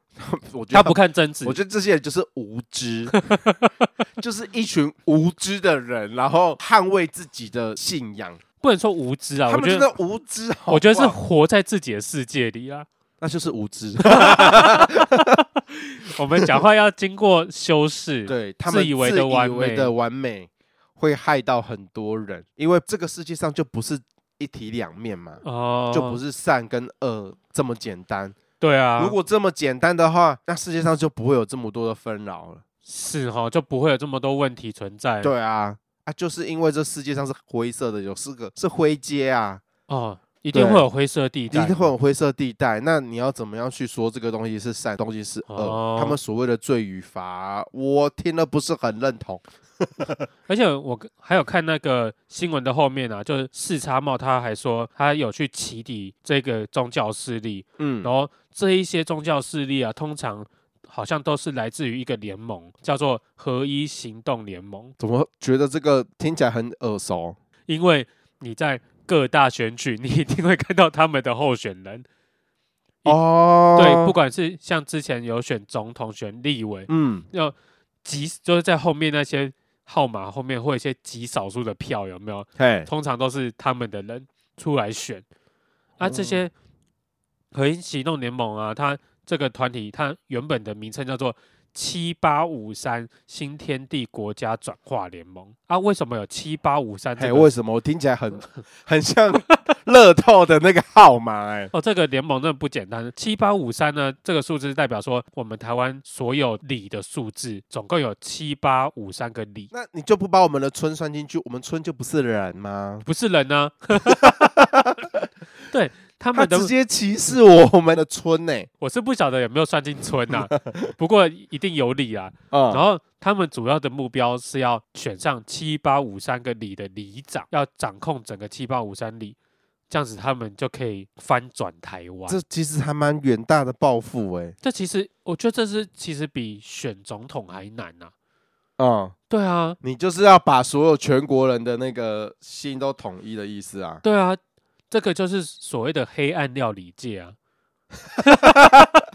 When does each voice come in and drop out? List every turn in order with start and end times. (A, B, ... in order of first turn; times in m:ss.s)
0:00.2-0:03.2 A
0:00.7-0:01.6 B
0:04.2-0:08.4 A
0:08.6-0:09.9 B
0:09.5-0:11.2 A
0:10.7-0:12.9 B
0:13.2-0:15.4 A
0:14.0-0:19.9 B
0:18.2-0:28.3 A
0:25.4-0:26.2 B
0:28.6-0:29.1 B
0:29.0-0:32.6 A
0:32.8-0:35.3 B
0:35.2-0:39.6 A
0:39.9-0:41.9 B
0:40.5-0:40.8 A
0:41.5-0:50.1 A
0:45.5-0:46.2 B
0:50.5-1:04.9 B
0:57.8-0:58.1 A
1:05.0-1:07.4 A
1:07.7-1:12.0 B
1:13.0-1:14.1 A
1:13.8-1:25.2 B
1:16.9-1:17.2 A
1:22.6-1:22.9 A
1:26.0-1:26.5 B
1:26.0-1:26.4 A
1:27.5-1:37.5 B
1:37.2-1:41.7 A
1:41.7-1:49.7 B
1:49.7-1:53.0 A
1:53.0-1:54.5 B
1:53.9-1:55.3 A
1:55.7-1:56.7 B
1:56.3-1:58.7 A
1:58.8-2:09.4 B
2:00.4-2:00.9 A
2:02.5-2:02.8 A
2:09.9-2:12.4 B
2:12.3-2:14.6 A
2:14.6-2:18.1 B
2:18.8-2:19.1 A
2:19.3-2:19.8 B
2:19.8-2:24.0 A
2:24.0-2:27.4 B
2:28.2-2:28.9 A
2:28.2-2:28.7 B